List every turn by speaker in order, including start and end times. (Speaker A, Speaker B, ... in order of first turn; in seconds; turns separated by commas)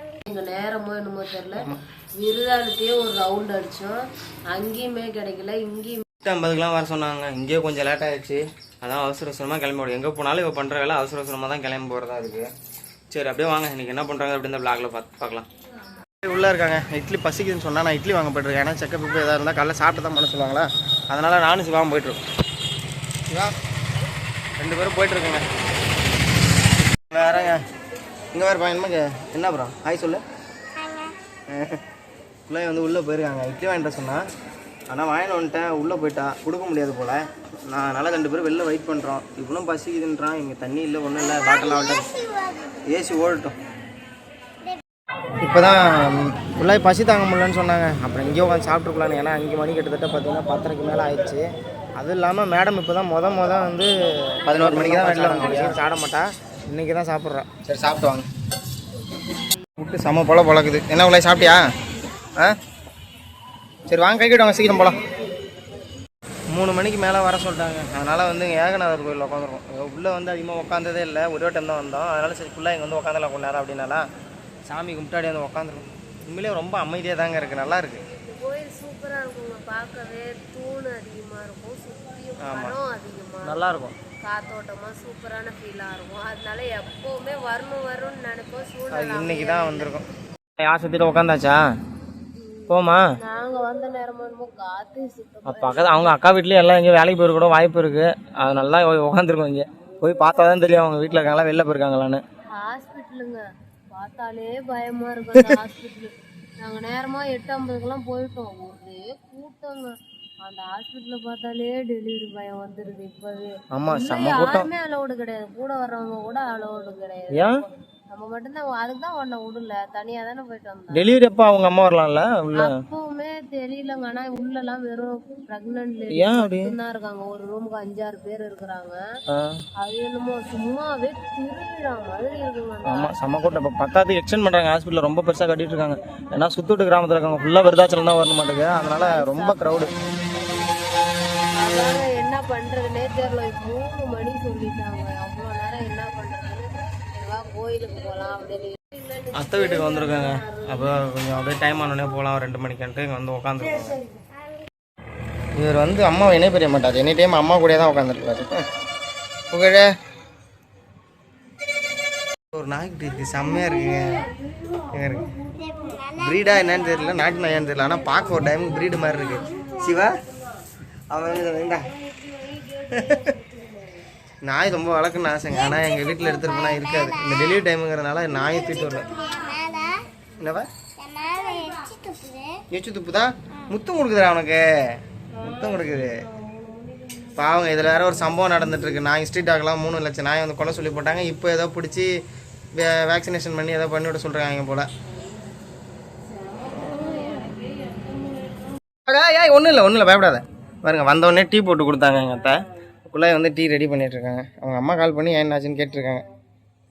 Speaker A: 0.2-1.6, Speaker A: 2.2-6.0, Speaker B: 6.2-12.5, Speaker B: 13.1-15.4, Speaker B: 16.2-22.2, Speaker B: 24.6-25.4, Speaker B: 27.1-27.6, Speaker B: 28.3-30.2, Speaker B: 31.5-31.8, Speaker B: 32.5-34.2, Speaker B: 34.9-42.1, Speaker B: 42.9-43.5, Speaker B: 45.4-51.4, Speaker B: 52.0-58.2, Speaker B: 59.8-61.6, Speaker B: 63.9-65.0, Speaker B: 66.5-74.0, Speaker B: 74.7-78.0, Speaker A: 78.1-83.6, Speaker B: 82.4-82.8, Speaker B: 83.4-83.9, Speaker A: 84.2-89.9, Speaker B: 88.9-90.1, Speaker B: 90.6-91.6, Speaker A: 92.4-96.2, Speaker B: 92.7-93.1, Speaker B: 95.5-102.2, Speaker A: 102.5-121.0, Speaker B: 113.7-114.7, Speaker B: 120.9-122.8, Speaker A: 122.6-129.0, Speaker B: 126.1-126.7, Speaker B: 129.3-129.6, Speaker A: 129.8-133.2, Speaker B: 132.8-139.9, Speaker A: 138.7-140.4, Speaker A: 141.5-151.0, Speaker B: 149.3-154.0, Speaker B: 155.6-158.6, Speaker B: 159.5-159.9, Speaker B: 162.5-164.3, Speaker B: 164.9-165.3, Speaker B: 166.0-170.2, Speaker B: 171.1-172.0, Speaker B: 172.8-173.4, Speaker B: 174.4-179.4, Speaker B: 180.4-180.7, Speaker B: 182.7-186.2, Speaker A: 186.7-187.2, Speaker B: 187.3-192.2, Speaker B: 192.7-194.9, Speaker A: 196.3-198.7, Speaker B: 199.1-206.2